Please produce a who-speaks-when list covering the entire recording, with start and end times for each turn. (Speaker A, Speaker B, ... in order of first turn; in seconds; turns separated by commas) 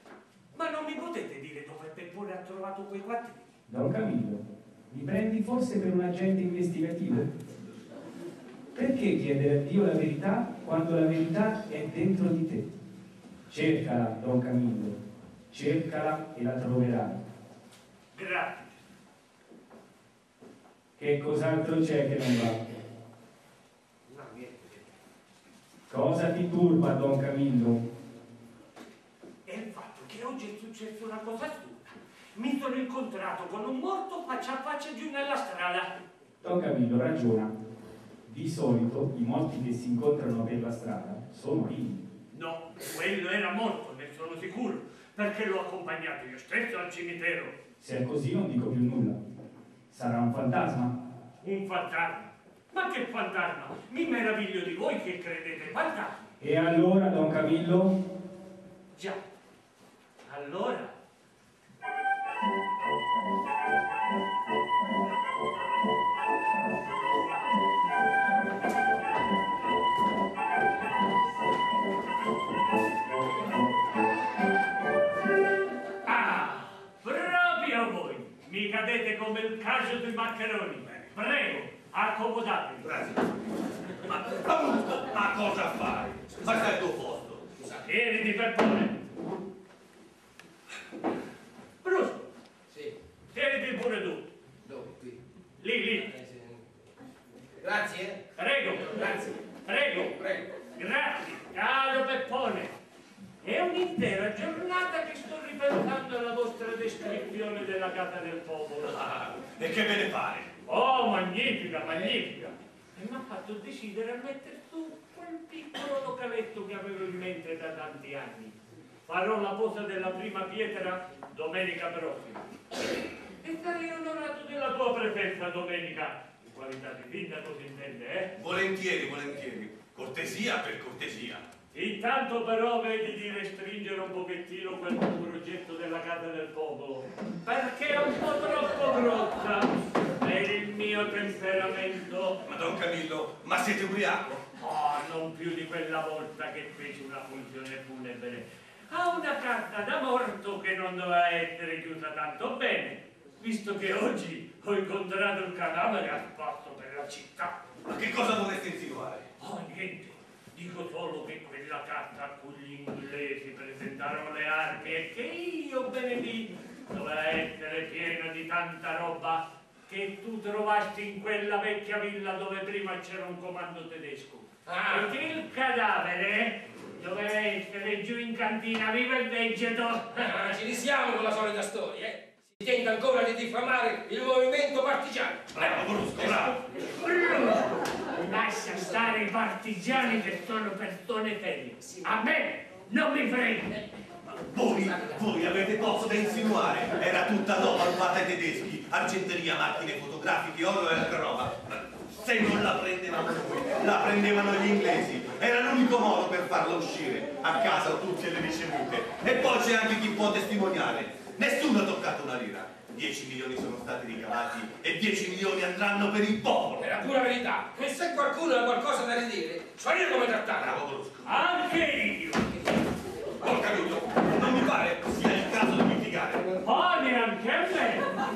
Speaker A: 0.5-3.4, Speaker B: 3.7-7.3, Speaker B: 8.7-12.7, Speaker B: 13.5-15.0, Speaker B: 15.5-17.2, Speaker A: 18.1-18.8, Speaker B: 21.0-22.6, Speaker A: 24.1-24.8, Speaker B: 25.9-27.8, Speaker A: 29.4-35.9, Speaker B: 36.4-37.5, Speaker B: 38.2-42.0, Speaker A: 42.3-47.5, Speaker B: 47.8-49.2, Speaker B: 49.9-51.0, Speaker A: 51.4-56.2, Speaker B: 56.4-58.0, Speaker A: 58.9-59.2, Speaker A: 60.2-60.9, Speaker A: 76.0-83.0, Speaker C: 84.5-87.4, Speaker A: 87.7-89.0, Speaker A: 91.8-92.3, Speaker A: 93.3-94.2, Speaker D: 94.6-95.2, Speaker A: 95.6-96.1, Speaker D: 96.2-96.6, Speaker D: 97.6-98.2, Speaker A: 98.3-102.7, Speaker D: 98.9-99.3, Speaker D: 100.2-100.5, Speaker A: 103.4-109.1, Speaker C: 109.2-110.5, Speaker A: 110.6-122.4, Speaker A: 123.4-128.3, Speaker C: 128.4-131.4, Speaker A: 131.7-142.4, Speaker C: 142.4-144.3, Speaker A: 144.5-157.6, Speaker C: 157.8-159.2, Speaker A: 159.4-180.4, Speaker D: 174.7-175.1, Speaker D: 180.2-186.4, Speaker C: 185.6-186.5, Speaker A: 186.8-193.9, Speaker C: 194.4-216.8, Speaker D: 216.8-220.8, Speaker C: 220.6-221.2, Speaker A: 221.2-222.6, Speaker C: 223.4-226.5, Speaker A: 226.6-228.2